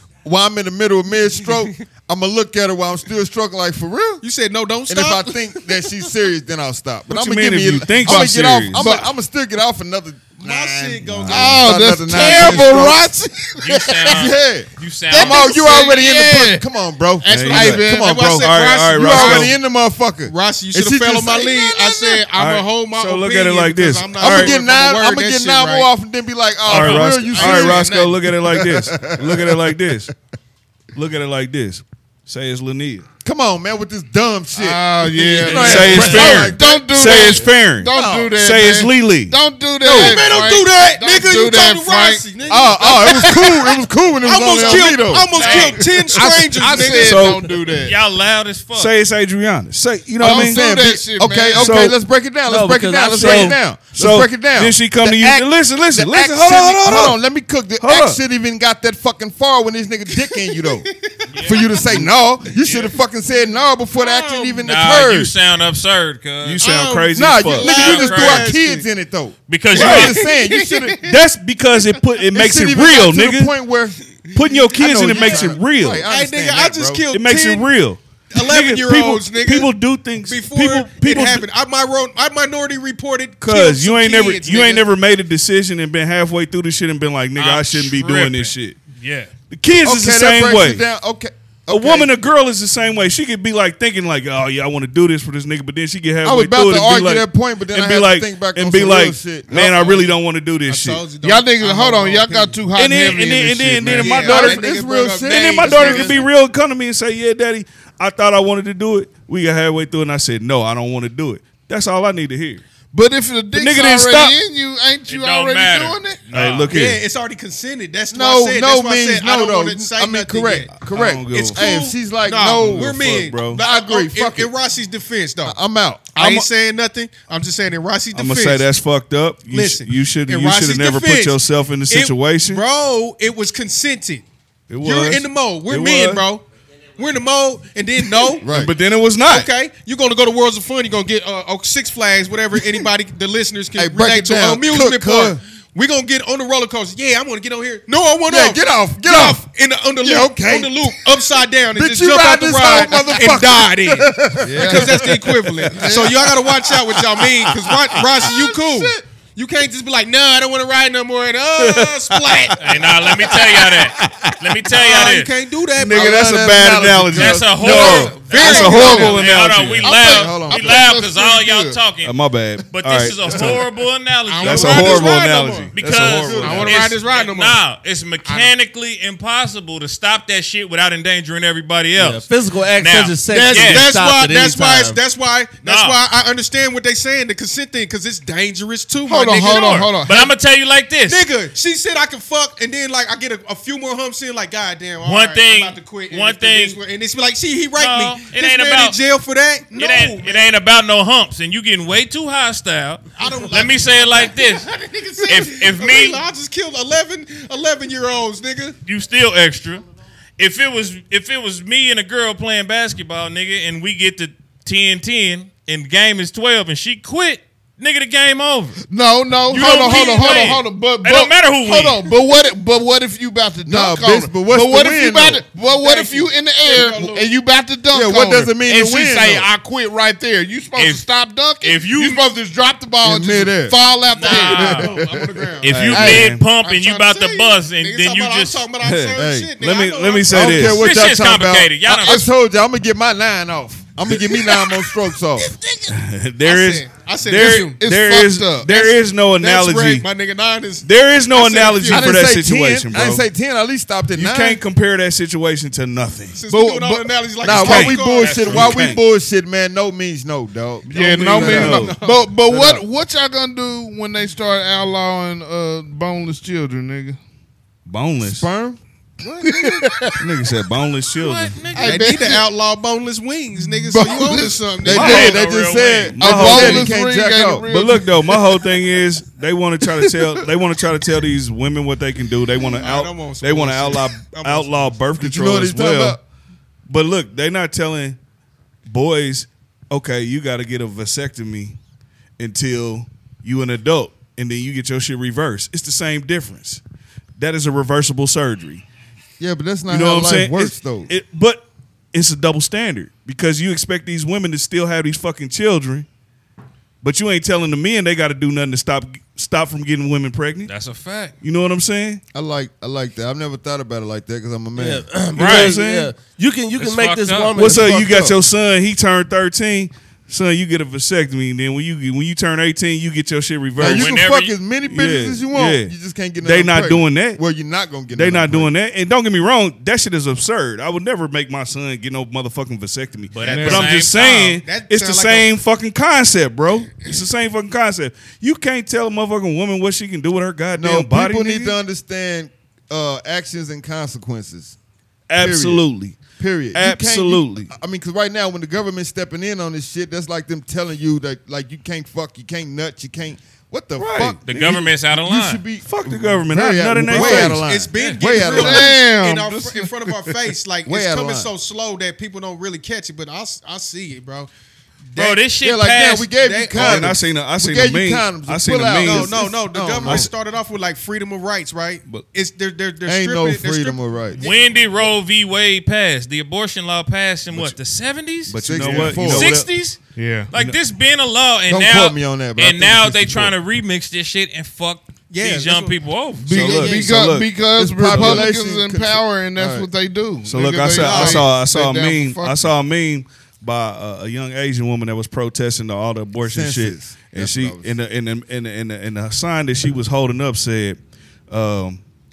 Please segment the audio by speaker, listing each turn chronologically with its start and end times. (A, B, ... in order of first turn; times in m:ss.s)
0:00.2-0:04.2 A
0:04.2-0:05.4 B
0:04.9-0:13.0 A
0:07.1-0:08.8 C
0:08.0-0:09.1 D
0:10.4-0:12.6 B
0:11.2-0:11.5 C
0:11.3-0:14.0 D
0:13.6-0:15.9 E
0:14.0-0:22.2 A
0:15.2-0:16.7 D
0:15.4-0:15.9 B
0:17.2-0:18.2 D
0:17.3-0:19.5 C
0:17.7-0:19.6 B
0:20.2-0:25.9 B
0:22.3-0:24.6 C
0:24.2-0:29.8 A
0:26.7-0:30.1 C
0:26.7-0:28.2 B
0:31.0-0:33.1 C
0:33.2-0:38.3 A
0:34.6-0:42.2 D
0:35.5-0:39.4 C
0:39.8-0:47.4 B
0:42.5-0:45.6 A
0:42.8-0:43.7 D
0:44.5-0:48.0 D
0:45.3-0:46.2 E
0:46.7-0:47.5 C
0:47.7-0:48.9 E
0:48.8-0:50.6 C
0:50.2-0:51.9 D
0:50.2-1:05.3 A
0:51.6-0:52.0 C
0:52.5-0:53.6 F
0:53.1-0:57.2 C
0:57.8-0:58.2 C
1:00.2-1:02.0 B
1:01.3-1:01.8 E
1:02.6-1:02.9 B
1:04.0-1:04.6 B
1:04.6-1:06.6 E
1:06.4-1:07.8 C
1:06.6-1:08.9 B
1:07.1-1:11.0 A
1:07.6-1:08.6 E
1:09.5-1:10.2 E
1:09.7-1:11.2 B
1:09.8-1:10.2 C
1:11.0-1:13.5 C
1:12.3-1:17.0 A
1:14.3-1:16.0 C
1:15.0-1:17.7 B
1:17.1-1:21.5 C
1:18.3-1:24.9 B
1:23.4-1:28.8 C
1:27.4-1:29.3 E
1:29.5-1:30.8 C
1:29.8-1:32.1 A
1:31.7-1:41.0 C
1:36.2-1:39.7 A
1:39.5-1:40.1 B
1:40.7-1:42.6 B
1:41.2-1:44.3 D
1:42.7-1:44.6 C
1:43.9-1:46.3 B
1:44.2-1:46.2 A
1:45.3-1:52.6 C
1:52.9-1:56.2 D
1:53.5-1:54.4 C
1:55.1-1:56.7 E
1:56.3-1:57.0 C
1:56.7-2:00.7 B
1:58.1-2:04.5 A
2:00.8-2:01.8 C
2:01.3-2:05.6 B
2:02.5-2:03.6 C
2:05.4-2:06.4 A
2:06.1-2:08.7 B
2:08.1-2:12.6 C
2:09.5-2:11.4 B
2:11.9-2:14.2 B
2:14.7-2:16.2 C
2:14.8-2:16.4 B
2:17.0-2:18.5 B
2:18.4-2:18.7 A
2:18.5-2:19.5 C
2:19.3-2:43.4 B
2:23.8-2:25.4 A
2:28.3-2:29.4 A
2:30.0-2:36.1 A
2:34.4-2:35.1 D
2:35.7-2:36.1 D
2:35.8-2:36.1 C
2:38.3-2:38.9 A
2:41.6-2:42.6 C
2:42.6-2:45.3 E
2:43.7-2:44.4 C
2:44.7-2:46.3 B
2:45.8-2:50.0 C
2:45.8-2:47.8 A
2:47.1-2:52.2 E
2:47.6-2:49.3 B
2:48.3-2:49.2 D
2:49.8-2:51.8 D
2:50.0-2:50.8 A
2:52.0-2:53.6 C
2:52.7-2:55.2 E
2:54.3-2:55.8 B
2:54.4-2:56.7 C
2:55.8-3:03.9 E
2:55.9-2:56.7 A
2:56.4-2:57.6 B
3:02.0-3:05.0 F
3:03.3-3:10.2 B
3:05.6-3:06.0 E
3:09.1-3:10.3 D
3:09.4-3:11.2 E
3:11.1-3:20.5 B
3:15.0-3:16.8 E
3:17.8-3:19.0 E
3:19.7-3:24.7 E
3:23.2-3:28.8 B
3:25.2-3:26.2 E
3:28.8-3:29.8 E
3:30.4-3:38.8 E
3:38.9-3:54.9 D
3:39.5-3:42.1 E
3:39.7-3:40.6 B
3:43.7-3:45.4 A
3:45.8-3:47.3 B
3:47.9-3:49.5 A
3:50.8-3:51.0 E
3:51.6-3:52.2 E
3:53.0-3:53.8 A
3:54.1-3:54.9 E
3:54.2-4:00.8 B
3:54.6-3:55.4 A
3:55.6-3:58.6 E
3:55.7-3:56.5 C
3:56.0-3:56.2 A
3:58.8-4:00.9 C
3:59.1-3:59.5 A
4:00.3-4:05.5 A
4:00.6-4:02.3 E
4:05.9-4:10.1 C
4:06.4-4:07.8 B
4:07.8-4:08.7 D
4:08.7-4:12.2 B
4:10.8-4:13.2 C
4:11.9-4:14.6 A
4:14.2-4:16.4 C
4:16.4-4:18.8 B
4:16.5-4:17.1 D
4:17.4-4:21.9 A
4:17.5-4:19.0 C
4:18.1-4:18.8 E
4:20.9-4:27.2 D
4:21.0-4:22.0 C
4:21.2-4:22.2 B
4:22.5-4:22.8 A
4:27.9-4:28.5 C
4:28.2-4:28.8 A
4:29.4-4:30.2 D
4:30.2-4:31.6 C
4:31.2-4:32.2 E
4:31.7-4:32.4 D
4:31.8-4:35.4 B
4:33.8-4:34.6 D
4:34.8-4:37.7 A
4:34.9-4:35.4 C
4:34.9-4:36.2 E
4:36.1-4:36.9 C
4:36.2-4:38.6 D
4:37.7-4:46.2 C
4:42.7-4:45.0 B
4:45.2-4:46.2 A
4:46.9-4:48.2 C
4:48.9-4:51.8 C
4:52.4-4:56.8 C
4:57.4-4:58.8 C
4:59.4-5:01.1 A
4:59.9-5:06.1 C
5:07.0-5:10.7 C
5:10.7-5:11.4 E
5:11.4-5:12.2 C
5:12.3-5:15.1 A
5:14.8-5:18.0 F
5:15.4-5:15.8 E
5:15.4-5:16.1 C
5:16.8-5:17.6 E
5:17.6-5:24.2 C
5:17.6-5:18.4 A
5:23.8-5:28.7 A
5:23.8-5:24.6 E
5:24.9-5:27.4 C
5:28.1-5:41.8 C
5:33.3-5:34.6 E
5:33.4-5:33.9 D
5:33.4-5:35.5 B
5:40.8-5:44.8 A
5:45.3-5:46.2 C
5:45.4-5:45.8 A
5:46.4-5:54.4 A
5:46.7-5:47.7 C
5:54.0-5:54.9 C
5:54.5-5:55.6 E
5:55.1-5:59.0 A
5:55.8-5:57.7 C
5:57.2-6:04.5 B
5:58.0-5:58.2 E
5:58.4-6:00.4 D
6:00.9-6:01.5 A
6:05.1-6:05.4 B
6:05.2-6:06.3 E
6:05.6-6:10.3 A
6:06.3-6:07.1 B
6:06.7-6:09.5 C
6:09.0-6:15.1 B
6:10.0-6:10.3 C
6:13.0-6:14.4 A
6:14.4-6:20.0 E
6:18.5-6:19.7 C
6:18.6-6:19.6 A
6:20.2-6:20.5 D
6:20.5-6:27.0 E
6:21.7-6:23.5 A
6:25.3-6:26.0 B
6:26.4-6:32.7 D
6:26.5-6:28.5 C
6:26.5-6:27.1 B
6:27.8-6:29.9 A
6:30.5-6:41.0 C
6:30.9-6:31.5 B
6:36.4-6:38.0 A
6:41.5-6:42.0 C